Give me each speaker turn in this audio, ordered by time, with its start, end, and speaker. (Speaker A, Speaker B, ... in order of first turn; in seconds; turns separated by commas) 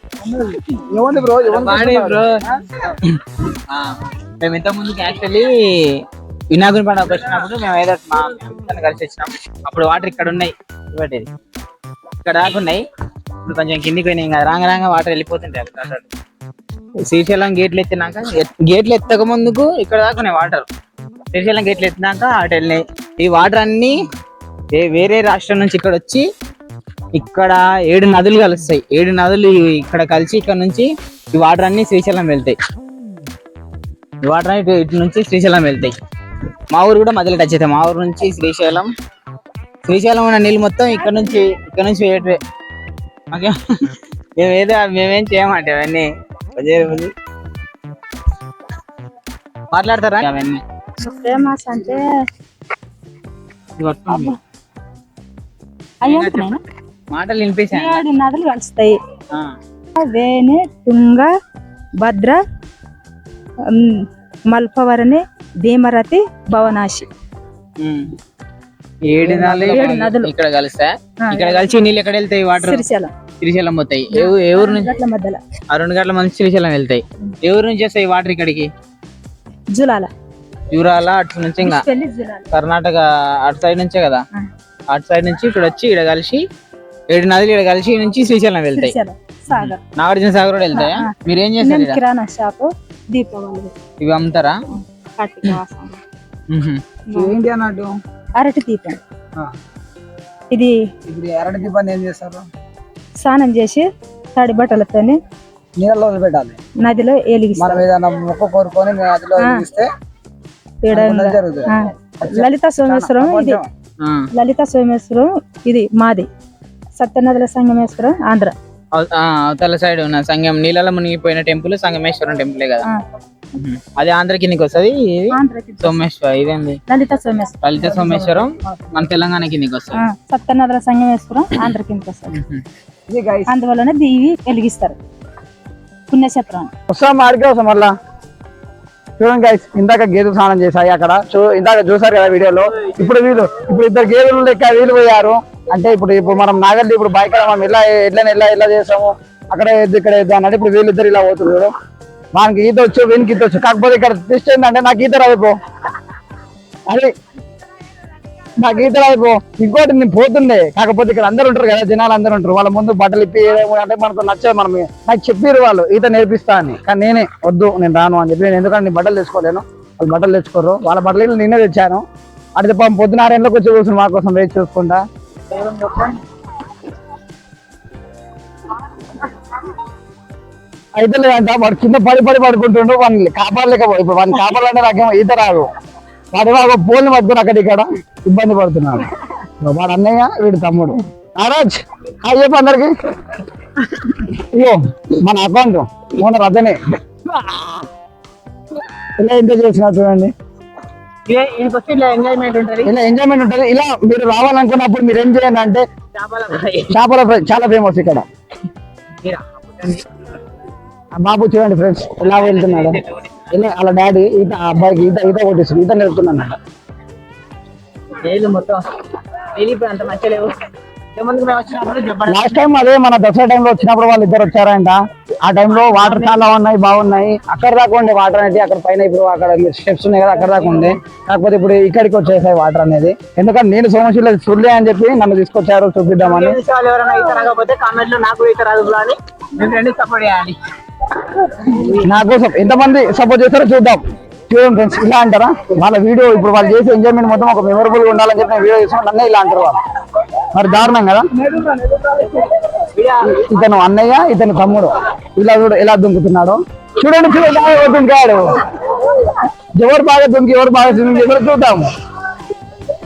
Speaker A: 0.2-2.6, Speaker B: 1.4-11.3, Speaker B: 12.2-12.8, Speaker B: 13.4-16.1, Speaker B: 17.0-20.6, Speaker B: 21.3-24.0, Speaker B: 24.7-26.3, Speaker B: 27.1-32.5, Speaker B: 34.2-35.9, Speaker B: 36.7-38.9, Speaker B: 39.9-42.4, Speaker B: 43.3-47.1, Speaker B: 49.7-50.6, Speaker C: 51.0-52.1, Speaker B: 53.8-54.4, Speaker C: 56.0-56.6, Speaker B: 56.0-56.5, Speaker B: 57.1-58.0, Speaker C: 57.7-59.0, Speaker C: 60.0-61.3, Speaker C: 62.0-62.4, Speaker C: 63.6-67.1, Speaker B: 67.8-68.1, Speaker B: 69.1-72.8, Speaker C: 69.2-70.3, Speaker C: 71.2-71.7, Speaker C: 72.6-73.1, Speaker B: 73.4-74.9, Speaker C: 74.1-75.4, Speaker B: 75.7-78.7, Speaker C: 79.7-80.1, Speaker B: 80.7-81.8, Speaker C: 81.6-82.5, Speaker B: 82.5-84.2, Speaker B: 84.9-86.5, Speaker B: 87.1-88.9, Speaker C: 88.7-89.8, Speaker B: 89.5-92.0, Speaker C: 90.7-91.1, Speaker C: 91.6-93.7, Speaker B: 94.0-94.6, Speaker C: 95.2-96.0, Speaker B: 96.5-96.8, Speaker C: 97.1-97.4, Speaker A: 97.1-97.9, Speaker C: 98.3-99.0, Speaker C: 100.5-100.8, Speaker A: 101.1-102.5, Speaker C: 103.2-105.2, Speaker A: 105.8-106.6, Speaker C: 106.8-107.8, Speaker A: 107.6-109.9, Speaker C: 110.8-113.6, Speaker A: 110.9-113.7, Speaker B: 114.0-114.3, Speaker C: 114.3-116.3, Speaker C: 117.0-118.5, Speaker B: 118.9-122.9, Speaker B: 123.5-126.8, Speaker C: 125.3-126.0, Speaker C: 126.9-127.6, Speaker B: 127.6-130.0, Speaker C: 129.9-132.3, Speaker B: 132.3-132.6, Speaker A: 133.1-133.5, Speaker C: 133.5-135.0, Speaker C: 136.1-136.7, Speaker A: 136.9-137.9, Speaker A: 139.2-151.7, Speaker A: 152.3-155.6, Speaker A: 158.6-175.0, Speaker B: 175.5-176.2, Speaker A: 181.0-185.7, Speaker A: 186.3-189.1, Speaker A: 189.6-192.9, Speaker A: 194.2-196.8, Speaker B: 197.3-197.8, Speaker A: 199.2-200.3, Speaker B: 201.3-202.9, Speaker A: 202.8-205.8, Speaker B: 206.1-206.9, Speaker A: 206.9-208.3, Speaker B: 209.2-210.0, Speaker A: 211.1-213.0, Speaker B: 212.3-213.4, Speaker A: 213.5-216.6, Speaker B: 218.2-220.6, Speaker B: 221.1-222.6, Speaker A: 222.3-236.6, Speaker B: 225.7-226.4, Speaker B: 230.4-230.9, Speaker B: 236.2-240.6, Speaker B: 241.6-242.1, Speaker A: 242.0-249.8, Speaker A: 250.5-251.3, Speaker B: 251.4-253.4, Speaker A: 253.3-258.8, Speaker A: 259.8-261.9